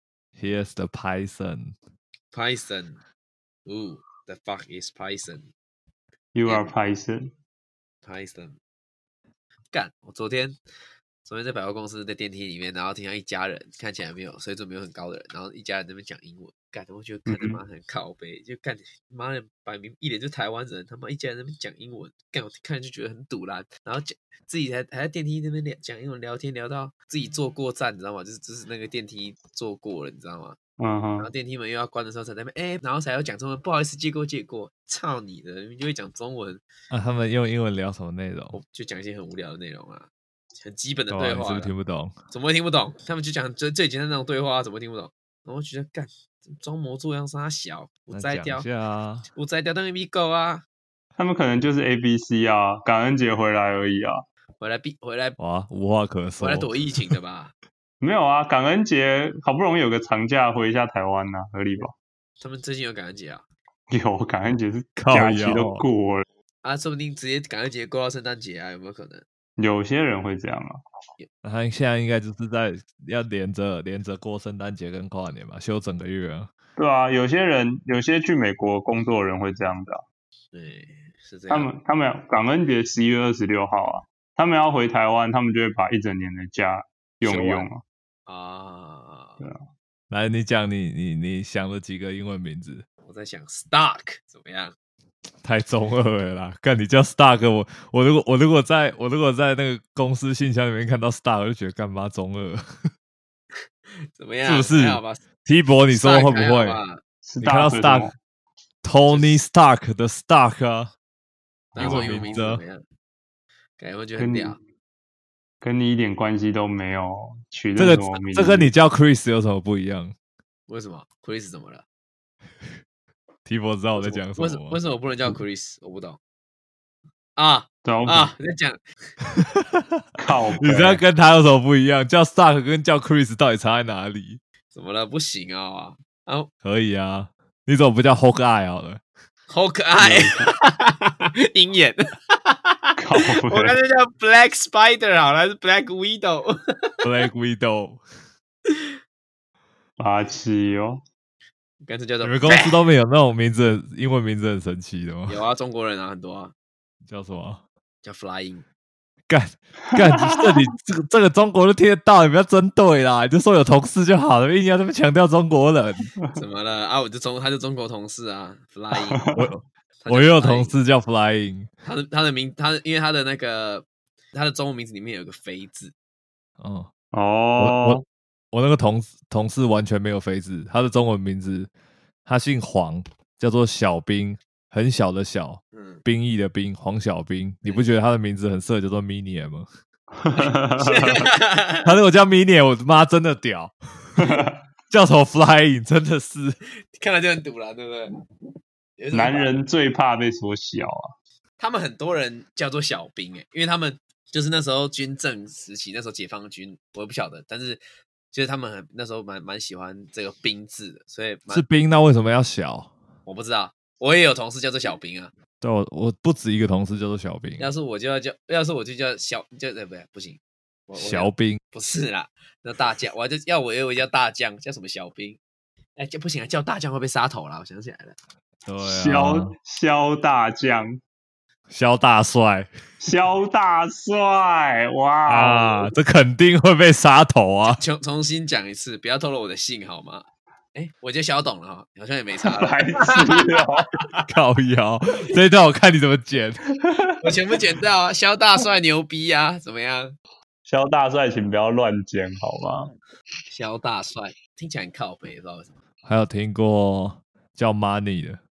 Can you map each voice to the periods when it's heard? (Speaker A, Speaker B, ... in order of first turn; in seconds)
Speaker A: 0.4-1.8, 36.9-38.6, 41.1-42.1, 48.1-49.2, 55.4-57.1, 65.0-65.8, 71.4-76.5, 90.1-92.8, 95.4-102.9, 104.4-106.8, 107.4-108.1, 108.8-110.9, 111.8-112.6, 117.8-120.1, 123.5-124.8, 129.3-130.0, 130.6-134.4, 136.6-139.0, 147.0-148.0, 152.2-155.4, 157.1-157.6, 159.3-166.1, 169.4-171.7, 176.6-176.9, 177.6-181.7, 182.2-189.7, 191.8-193.7, 194.9-196.6, 211.5-212.9, 215.6-217.7, 220.9-221.6, 228.7-229.5, 231.7-232.7, 235.3-237.8, 244.3-246.6, 256.0-258.4
Speaker B: 2.3-3.0, 3.6-5.5, 6.5-6.7, 8.0-8.6, 9.7-10.6, 11.2-30.6, 31.2-36.6, 38.5-41.7, 42.3-48.7, 49.3-50.6, 54.6-55.4, 56.4-57.5, 62.4-63.4, 66.6-69.2, 80.5-81.7, 87.2-87.7, 88.3-89.4, 93.0-94.7, 103.9-105.2, 105.9-107.0, 109.1-109.4, 111.7-112.8, 113.8-114.6, 120.7-121.8, 124.0-126.2, 127.3-128.8, 134.7-136.5, 139.5-146.9, 151.8-152.8, 155.3-156.5, 158.0-158.6, 166.3-169.2, 170.0-170.8, 171.8-175.9, 185.7-186.0, 190.3-191.9, 196.9-198.1, 199.0-199.5, 201.6-207.8, 208.3-211.6, 213.2-215.3, 217.6-225.4, 226.0-228.2, 237.7-244.3, 247.2-250.2, 253.5-255.7
Speaker C: 6.3-7.3, 17.3-17.6, 30.8-31.3, 51.2-54.2, 58.0-61.9, 63.9-66.2, 69.6-70.8, 76.8-80.0, 81.5-87.8, 107.2-108.1, 111.7-112.3, 114.2-114.6, 115.6-118.7, 127.8-128.3, 130.2-131.0, 140.0-140.5, 143.0-143.8, 150.0-151.0, 159.9-160.6, 168.9-169.5, 177.1-178.0, 190.2-191.3, 194.2-194.6, 199.1-201.1, 228.8-231.0, 233.0-235.9, 242.4-243.9, 246.8-247.2, 250.6-252.9